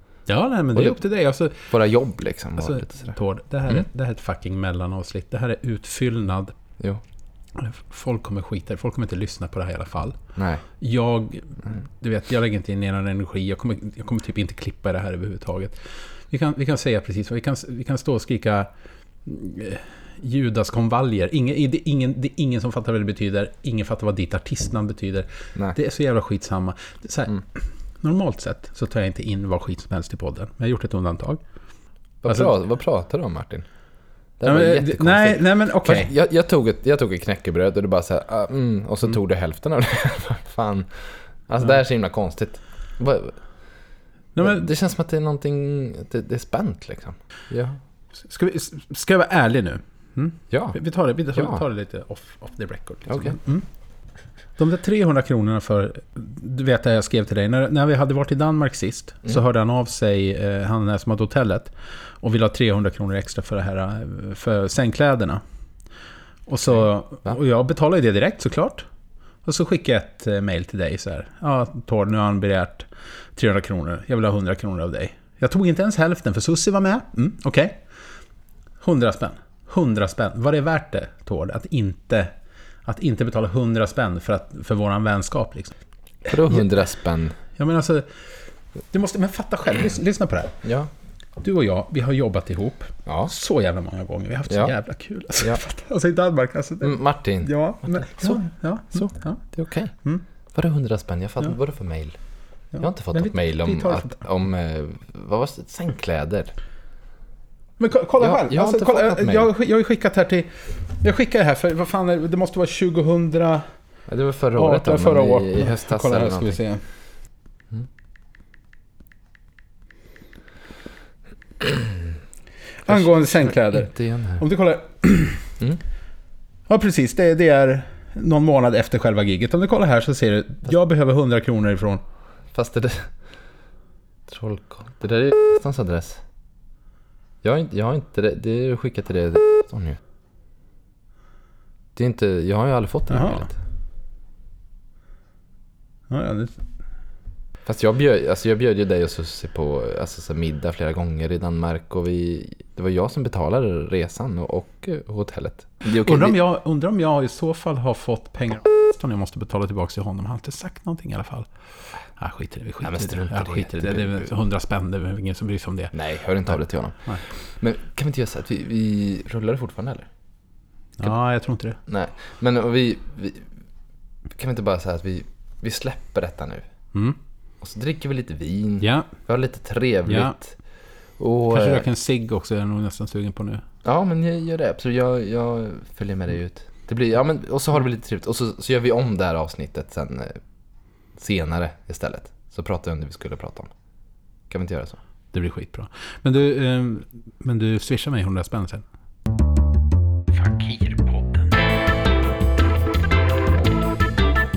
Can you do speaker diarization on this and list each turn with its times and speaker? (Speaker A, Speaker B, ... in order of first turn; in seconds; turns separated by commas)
Speaker A: 0.3-1.7, Speaker B: 1.7-3.1, Speaker A: 2.6-6.5, Speaker A: 7.5-10.2, Speaker B: 10.3-10.6, Speaker A: 10.8-18.7, Speaker A: 19.2-31.4, Speaker B: 32.2-33.6, Speaker A: 32.3-32.5, Speaker B: 34.4-43.6, Speaker A: 34.4-36.1, Speaker A: 44.3-44.7, Speaker B: 44.4-47.8, Speaker A: 48.2-53.6, Speaker B: 50.5-50.8, Speaker B: 51.3-51.6, Speaker B: 53.1-53.4, Speaker A: 54.6-65.4, Speaker A: 66.5-68.8, Speaker B: 66.7-67.4, Speaker A: 69.4-77.8, Speaker A: 78.8-82.3, Speaker A: 82.8-85.7, Speaker B: 86.2-87.3, Speaker A: 87.6-88.0, Speaker A: 88.9-90.6, Speaker B: 90.6-90.9, Speaker A: 91.4-99.4, Speaker B: 93.0-93.3, Speaker B: 94.5-94.7, Speaker B: 96.8-99.9, Speaker B: 100.5-102.2, Speaker A: 102.7-104.2, Speaker B: 102.8-106.5, Speaker A: 107.8-113.6, Speaker B: 108.2-109.5, Speaker B: 114.1-116.6, Speaker A: 114.5-116.8, Speaker A: 122.8-125.5, Speaker B: 122.9-124.4, Speaker A: 126.7-132.0, Speaker B: 132.5-133.1, Speaker B: 134.3-136.2, Speaker B: 137.4-140.0, Speaker B: 141.9-143.6, Speaker A: 143.1-143.5, Speaker A: 146.1-146.6, Speaker B: 147.7-156.4, Speaker A: 156.0-161.5, Speaker A: 162.1-167.2, Speaker B: 162.8-164.3, Speaker B: 165.9-170.1, Speaker A: 171.0-171.8, Speaker B: 171.8-173.5, Speaker B: 174.3-176.7, Speaker B: 177.6-180.6, Speaker A: 178.8-179.1, Speaker A: 180.1-180.3, Speaker B: 181.2-181.8, Speaker A: 181.5-183.6, Speaker B: 183.8-190.4, Speaker B: 191.1-193.7, Speaker B: 194.5-195.0, Speaker A: 195.3-198.8, Speaker A: 200.3-201.5